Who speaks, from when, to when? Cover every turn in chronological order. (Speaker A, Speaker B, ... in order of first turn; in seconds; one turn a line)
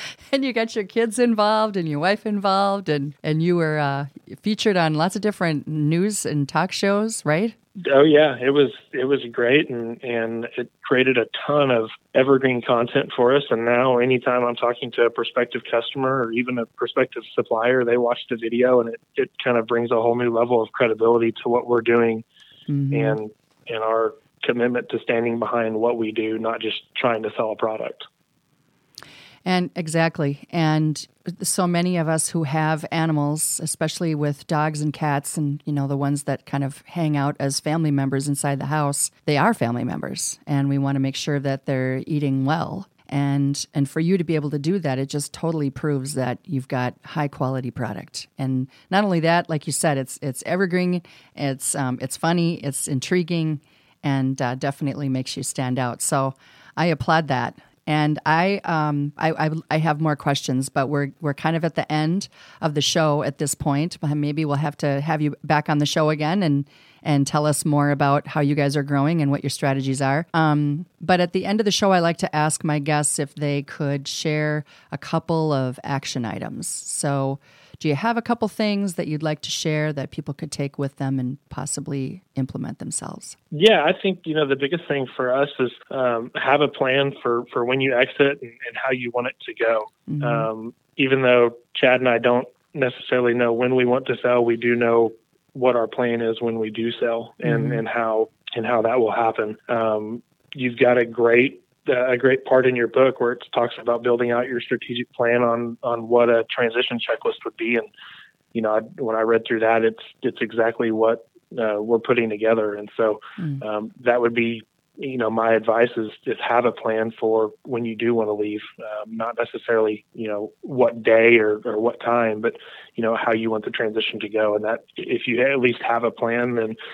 Speaker A: 0.3-7.5
Speaker B: 7.8-22.2
Speaker A: 22.7-23.2
Speaker B: 22.9-28.1
Speaker A: 29.4-83.4
Speaker B: 83.5-107.9
Speaker A: 90.1-90.5
Speaker A: 97.4-97.8
Speaker B: 108.5-126.8